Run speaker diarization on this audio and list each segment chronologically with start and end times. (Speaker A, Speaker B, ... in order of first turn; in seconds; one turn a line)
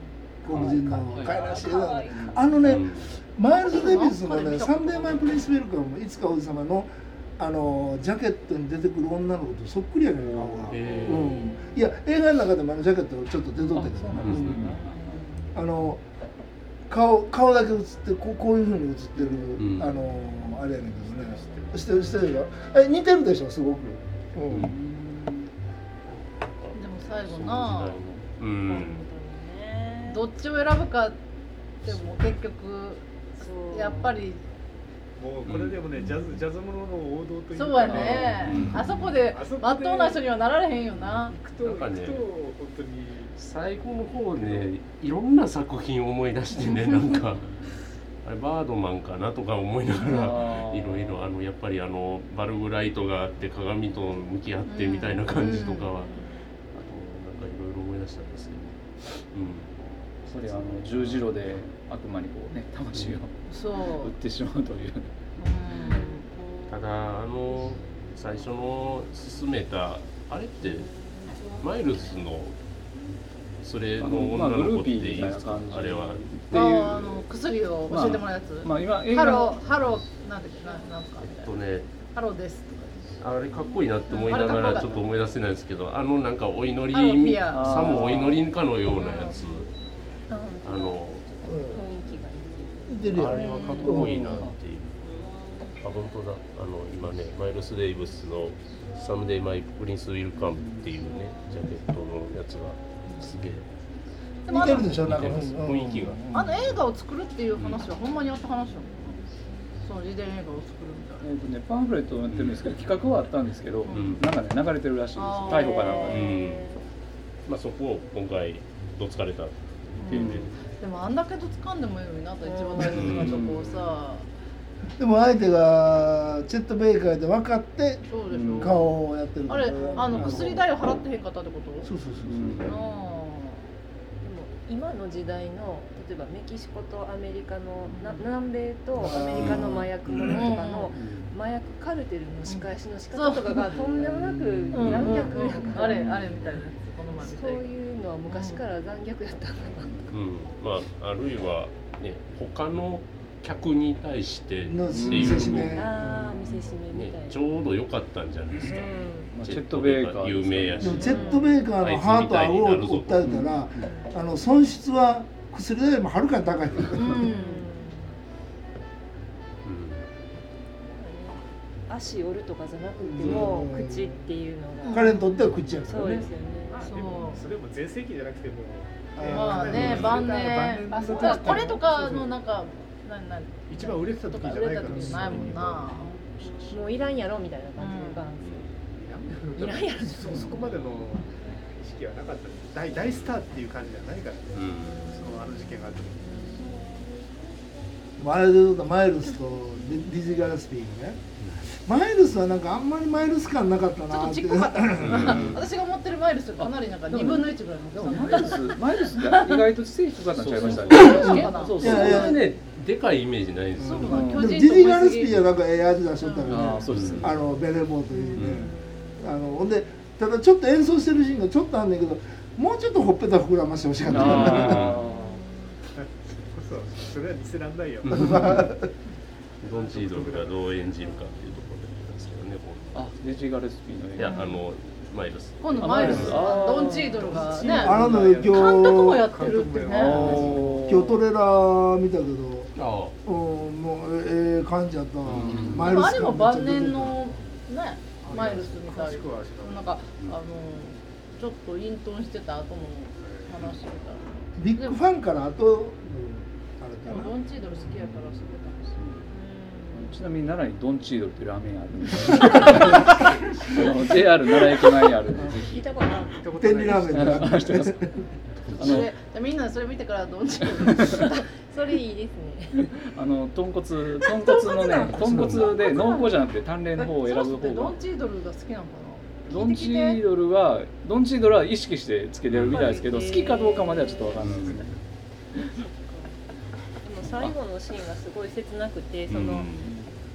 Speaker A: 0.4-14.7
Speaker B: 0.5-2.4
Speaker C: 0.7-2.5
Speaker D: 2.6-3.2
Speaker E: 3.6-5.4
Speaker B: 10.4-10.7
Speaker D: 10.7-11.4
Speaker C: 11.3-11.6
Speaker B: 13.7-15.3
Speaker D: 14.2-14.7
Speaker A: 15.5-16.0
Speaker A: 16.9-24.7
Speaker B: 19.2-19.5
Speaker D: 19.6-20.0
Speaker D: 21.3-21.7
Speaker B: 24.5-25.5
Speaker D: 26.6-29.0
Speaker E: 26.7-28.0
Speaker C: 28.6-30.3
Speaker E: 30.1-31.2
Speaker E: 31.8-33.1
Speaker C: 33.4-34.2
Speaker E: 33.7-34.4
Speaker F: 35.2-38.5
Speaker D: 35.5-35.9
Speaker E: 37.5-41.4
Speaker D: 37.9-38.9
Speaker F: 39.1-40.2
Speaker F: 41.3-43.3
Speaker D: 41.6-42.2
Speaker D: 43.4-47.5
Speaker D: 48.2-59.7
Speaker B: 50.0-51.2
Speaker E: 54.7-55.9
Speaker C: 55.6-56.3
Speaker B: 60.2-63.3
Speaker D: 60.9-61.2
Speaker E: 63.5-64.1
Speaker B: 63.9-65.1
Speaker E: 65.4-66.2
Speaker C: 65.8-66.3
Speaker D: 66.7-70.9
Speaker C: 70.8-71.5
Speaker D: 71.5-72.5
Speaker D: 73.6-77.3
Speaker B: 74.0-76.9
Speaker E: 76.5-83.1
Speaker B: 77.9-79.6
Speaker D: 81.2-81.9
Speaker D: 83.2-89.7
Speaker C: 84.1-84.5
Speaker E: 84.3-85.0
Speaker E: 86.9-88.1
Speaker B: 87.5-88.5
Speaker E: 88.8-89.4
Speaker C: 90.3-94.1
Speaker D: 90.6-91.3
Speaker A: 91.5-91.8
Speaker A: 92.9-94.4
Speaker D: 93.1-95.1
Speaker B: 93.9-94.5
Speaker D: 95.8-103.7
Speaker B: 100.6-100.9
Speaker E: 104.5-104.9
Speaker A: 104.5-106.6
Speaker D: 104.6-106.8
Speaker E: 106.3-109.2
Speaker D: 107.5-107.8
Speaker E: 109.8-111.2
Speaker B: 111.2-116.3
Speaker D: 112.3-112.7
Speaker E: 113.9-114.2
Speaker D: 113.9-114.2
Speaker E: 115.2-116.3
Speaker C: 115.6-116.8
Speaker D: 116.0-116.7
Speaker D: 117.5-120.5
Speaker E: 120.0-124.3
Speaker B: 120.1-120.5
Speaker C: 122.4-123.0
Speaker D: 122.8-123.5
Speaker B: 122.9-124.0
Speaker A: 125.0-130.7
Speaker E: 128.1-128.9
Speaker B: 128.3-128.8
Speaker E: 129.5-131.9
Speaker B: 130.1-130.5
Speaker A: 131.8-132.7
Speaker B: 132.2-132.7
Speaker E: 132.6-133.6
Speaker C: 134.2-146.3
Speaker E: 137.9-138.3
Speaker A: 139.0-140.5
Speaker E: 139.2-139.6
Speaker D: 139.4-139.6
Speaker E: 140.2-140.9
Speaker B: 140.9-141.3
Speaker E: 142.5-143.8
Speaker A: 143.9-145.2
Speaker E: 144.7-147.7
Speaker D: 144.8-145.2
Speaker B: 145.9-146.5
Speaker C: 147.2-150.2
Speaker E: 148.3-148.6
Speaker D: 150.1-155.9
Speaker A: 154.7-156.8
Speaker B: 154.9-155.6
Speaker C: 155.7-157.4
Speaker D: 156.9-163.3
Speaker C: 158.7-159.3
Speaker B: 159.3-161.1
Speaker A: 160.8-167.4
Speaker C: 160.9-161.6
Speaker B: 163.2-163.9
Speaker E: 166.9-167.7
Speaker C: 167.2-168.2
Speaker D: 169.6-170.0
Speaker C: 170.9-175.3
Speaker A: 173.0-174.3
Speaker D: 173.2-173.5
Speaker E: 174.8-175.3
Speaker A: 174.8-176.3
Speaker C: 175.8-177.0
Speaker F: 176.7-182.4
Speaker E: 176.8-177.4
Speaker A: 179.1-180.4
Speaker E: 179.3-186.2
Speaker D: 179.7-180.3
Speaker C: 181.1-181.8
Speaker F: 183.7-186.0
Speaker C: 184.4-185.1
Speaker A: 185.0-185.8
Speaker C: 186.1-188.8
Speaker E: 187.8-188.3
Speaker D: 188.4-188.8
Speaker F: 188.8-196.6
Speaker C: 189.5-190.9
Speaker D: 194.5-195.1
Speaker C: 196.3-196.8
Speaker A: 198.2-201.2
Speaker A: 201.8-205.6
Speaker E: 204.1-209.5
Speaker D: 205.0-205.6
Speaker B: 205.2-205.7
Speaker B: 206.6-212.4
Speaker D: 210.4-214.3
Speaker E: 210.8-212.3
Speaker A: 210.9-212.4
Speaker A: 213.8-224.9
Speaker E: 213.8-215.3
Speaker B: 214.1-214.5
Speaker E: 216.2-216.5
Speaker B: 216.5-217.4
Speaker D: 216.9-217.2
Speaker C: 218.2-218.7
Speaker D: 218.3-218.7
Speaker B: 224.1-225.4
Speaker D: 224.1-225.0
Speaker C: 224.8-225.6
Speaker F: 226.0-228.7
Speaker D: 228.0-228.7
Speaker A: 228.1-228.9
Speaker D: 229.6-233.2
Speaker F: 229.7-230.6
Speaker B: 232.9-234.6
Speaker D: 234.2-236.4
Speaker E: 235.6-240.5
Speaker B: 235.8-237.4
Speaker A: 236.0-236.3
Speaker C: 236.4-237.2
Speaker F: 237.2-240.8
Speaker A: 237.7-247.3
Speaker B: 239.9-241.2
Speaker D: 242.8-243.2
Speaker D: 245.2-246.0
Speaker E: 245.7-255.0
Speaker F: 248.2-250.1
Speaker A: 248.3-248.7
Speaker F: 253.2-253.6
Speaker A: 254.6-257.4
Speaker E: 257.1-259.0
Speaker C: 259.3-260.1
Speaker B: 259.9-265.9
Speaker C: 265.4-266.5
Speaker F: 266.4-267.6
Speaker A: 266.6-268.1
Speaker B: 267.1-268.0
Speaker D: 268.6-269.1
Speaker E: 268.7-271.5
Speaker B: 268.8-269.1
Speaker C: 271.1-273.0
Speaker B: 272.7-277.9
Speaker C: 274.4-276.2
Speaker E: 274.8-276.2
Speaker D: 275.2-275.8
Speaker E: 277.0-280.2
Speaker B: 279.5-284.9
Speaker D: 282.5-282.9
Speaker C: 282.7-284.7
Speaker D: 284.4-284.8
Speaker C: 285.6-286.3
Speaker C: 287.0-289.8
Speaker D: 289.3-289.9
Speaker B: 289.8-290.1